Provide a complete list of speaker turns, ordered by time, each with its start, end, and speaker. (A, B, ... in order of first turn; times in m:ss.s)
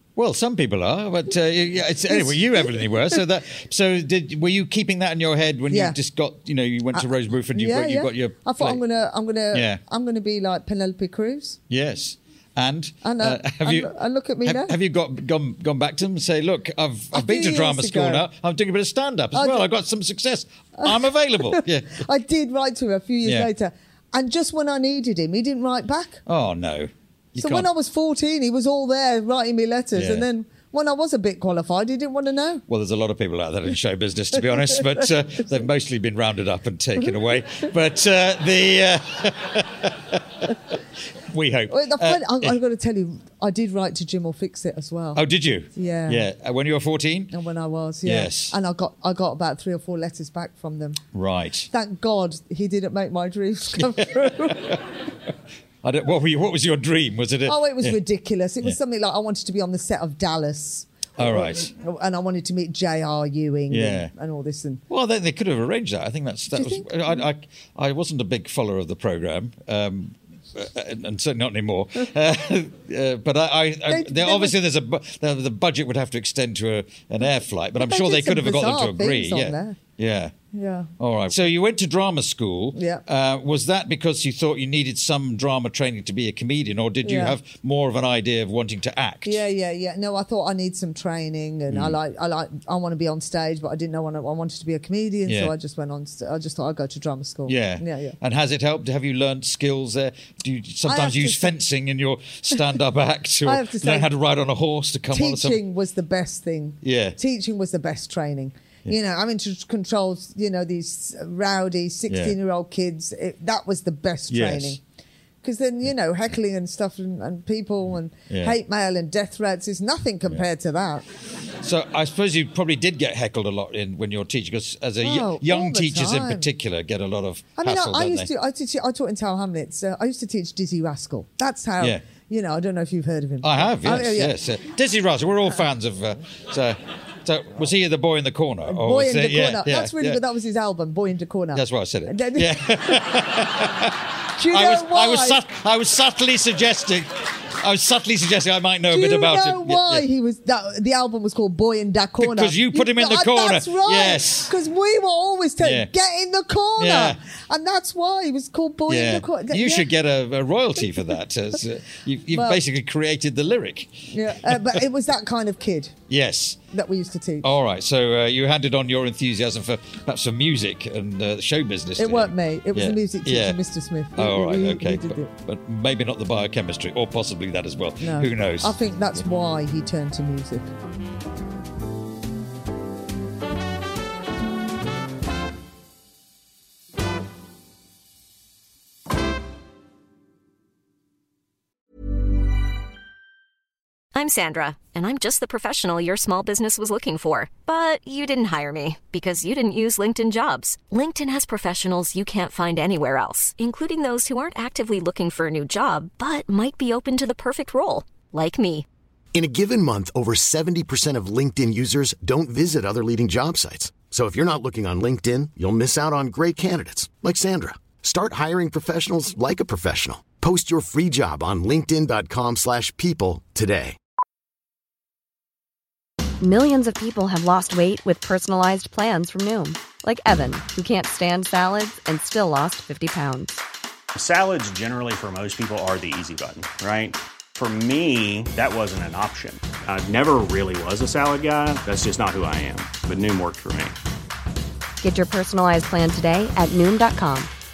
0:00.2-0:08.8 A
0:02.1-0:03.2 B
0:05.7-0:06.0 B
0:06.9-0:11.6 B
0:09.5-0:09.8 A
0:11.7-0:13.9 A
0:13.0-0:14.7 B
0:14.4-0:22.0 A
0:17.1-0:18.2 B
0:19.3-0:19.6 B
0:20.8-0:26.2 B
0:23.2-0:23.5 A
0:26.2-0:27.7 A
0:27.4-0:32.6 B
0:29.9-0:30.3 A
0:32.7-0:40.7 A
0:41.2-0:42.6 A
0:41.7-0:45.2 B
0:45.1-0:47.3 A
0:45.7-0:46.2 B
0:47.3-0:51.0 B
0:48.0-0:48.5 A
0:51.1-0:51.7 A
0:51.7-0:54.8 B
0:53.8-0:54.8 A
0:55.8-0:58.0 A
0:57.4-1:04.8 B
1:01.2-1:01.7 A
1:03.7-1:04.1 A
1:04.9-1:20.3 A
1:06.5-1:07.2 B
1:13.9-1:14.6 B
1:17.8-1:19.8 B
1:20.5-1:20.9 B
1:21.0-1:29.4 A
1:22.7-1:23.0 B
1:27.0-1:27.4 B
1:29.2-1:38.2 B
1:31.7-1:32.0 A
1:35.2-1:35.5 A
1:37.5-1:45.6 A
1:40.8-1:41.5 B
1:43.4-1:44.1 B
1:45.1-1:54.8 B
1:46.8-1:47.2 A
1:52.1-1:52.3 A
1:54.3-1:54.8 A
1:55.4-2:01.0 B
1:58.3-1:58.5 A
2:01.6-2:08.3 A
2:05.0-2:06.5 B
2:07.6-2:14.4 B
2:13.4-2:20.2 A
2:18.6-2:23.2 B
2:21.5-2:30.1 A
2:24.4-2:25.4 B
2:28.9-2:39.9 B
2:32.2-2:34.5 A
2:35.6-2:35.9 A
2:36.8-2:37.2 A
2:38.9-2:44.8 A
2:42.3-2:42.6 B
2:44.1-2:45.9 B
2:46.1-2:46.6 A
2:46.7-2:47.5 B
2:47.4-2:53.6 A
2:52.0-2:55.3 B
2:54.1-2:58.7 A
2:58.0-3:00.7 B
3:14.1-3:28.8 C
3:29.3-3:44.0 D
3:46.4-3:53.6 E
3:54.2-4:03.9 F
4:05.0-4:07.5 E